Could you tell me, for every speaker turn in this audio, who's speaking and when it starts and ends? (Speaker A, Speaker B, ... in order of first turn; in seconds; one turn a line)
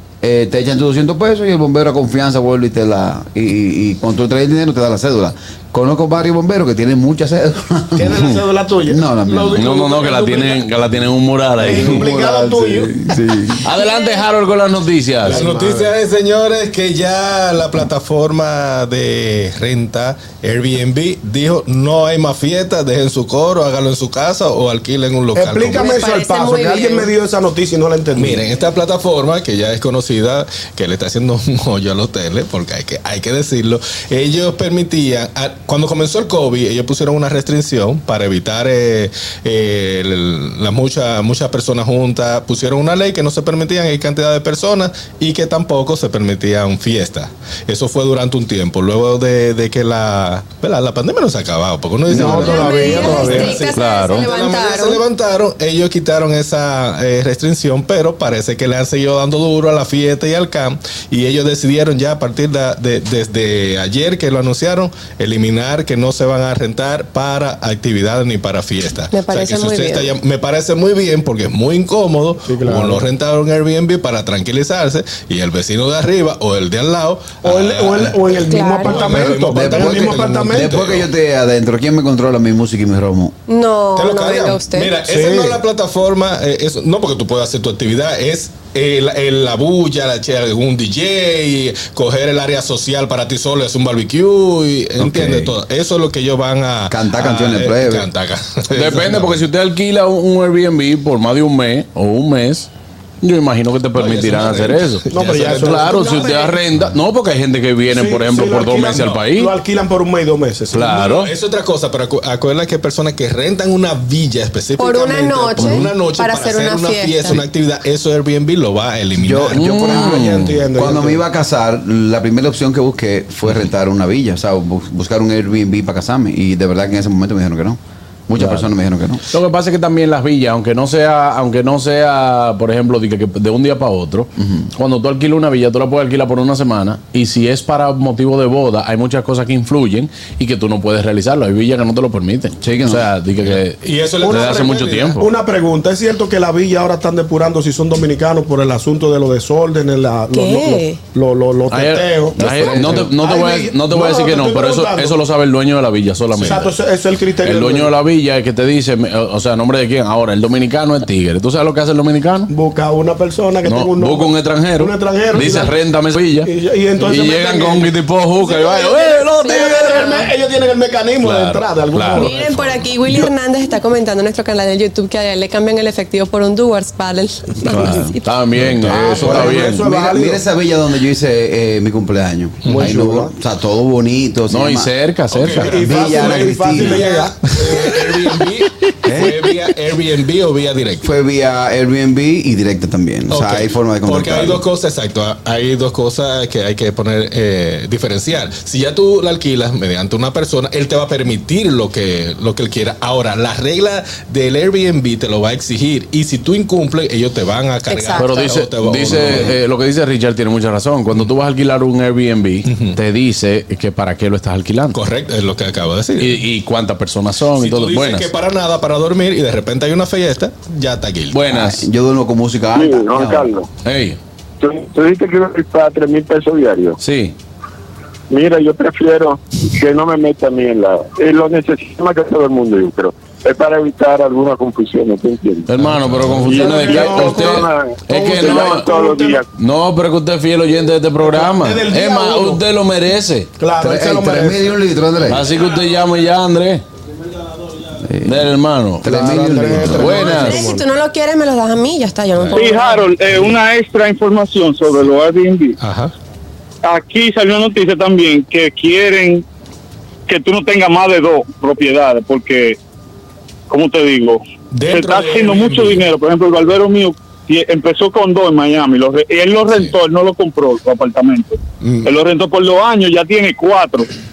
Speaker A: 0.2-8.3
Speaker B: 8.0-10.6
Speaker A: 8.9-9.7
Speaker C: 9.5-12.2
Speaker B: 11.6-13.1
Speaker A: 11.7-13.7
Speaker C: 13.6-15.4
Speaker B: 15.2-15.9
Speaker D: 15.3-26.1
Speaker B: 25.4-28.4
Speaker E: 25.8-27.1
Speaker D: 28.2-81.1
Speaker B: 52.1-53.8
Speaker A: 52.1-52.5
Speaker E: 52.2-55.0
Speaker C: 53.7-54.3
Speaker E: 69.1-70.1
Speaker B: 72.5-73.0
Speaker B: 77.4-80.8
Speaker E: 78.5-79.0
Speaker A: 79.0-83.3
Speaker E: 83.5-85.0
Speaker D: 84.0-99.4
Speaker B: 85.0-85.6
Speaker A: 95.0-95.6
Speaker A: 96.9-98.1
Speaker C: 98.7-102.7
Speaker C: 103.2-109.5
Speaker D: 104.0-106.2
Speaker B: 105.1-106.6
Speaker B: 107.9-111.1
Speaker C: 110.7-111.3
Speaker D: 111.0-119.8
Speaker E: 114.8-117.4
Speaker A: 119.2-129.2
Speaker C: 119.5-120.6
Speaker B: 119.7-121.2
Speaker C: 128.4-128.7
Speaker C: 129.3-145.3
Speaker A: 134.4-134.7
Speaker A: 142.6-143.1
Speaker D: 143.4-145.2
Speaker B: 144.2-155.2
Speaker E: 150.3-151.0
Speaker C: 151.7-156.7
Speaker A: 152.4-153.1
Speaker B: 156.3-157.9
Speaker C: 157.4-162.5
Speaker B: 162.5-165.7
Speaker C: 163.7-170.2
Speaker B: 166.4-172.8
Speaker E: 169.4-170.3
Speaker C: 171.2-172.3
Speaker E: 172.2-178.2
Speaker C: 177.7-179.9
Speaker A: 177.7-178.1
Speaker D: 178.6-179.1
Speaker B: 178.9-180.4
Speaker A: 179.1-184.9
Speaker D: 182.7-182.9
Speaker B: 182.7-183.3
Speaker C: 184.5-185.8
Speaker D: 185.3-191.1
Speaker B: 185.6-188.3
Speaker A: 185.8-187.1
Speaker A: 189.0-189.4
Speaker A: 191.0-194.6
Speaker D: 193.3-209.6
Speaker E: 207.9-208.4
Speaker C: 208.2-215.0
Speaker D: 212.7-213.0
Speaker D: 214.9-216.4
Speaker C: 216.2-218.3
Speaker D: 217.6-221.4
Speaker C: 221.3-221.8
Speaker A: 221.5-223.5
Speaker F: 222.7-223.7
Speaker C: 223.8-224.2
Speaker F: 224.6-227.0
Speaker C: 227.0-227.4
Speaker F: 228.3-235.7
Speaker C: 235.7-238.9
Speaker F: 236.4-239.5
Speaker B: 236.5-239.4
Speaker C: 239.6-243.5
Speaker B: 241.2-242.6
Speaker B: 243.6-244.7
Speaker A: 243.8-245.5
Speaker C: 245.3-246.8
Speaker A: 248.1-248.5
Speaker C: 248.2-249.1
Speaker A: 249.0-250.3
Speaker B: 249.0-250.9
Speaker C: 249.7-250.7
Speaker E: 250.1-253.1
Speaker G: 252.5-255.8
Speaker D: 255.8-256.1
Speaker G: 256.8-259.4
Speaker G: 260.3-262.8
Speaker G: 263.7-274.1
Speaker D: 264.7-266.0
Speaker D: 271.8-272.1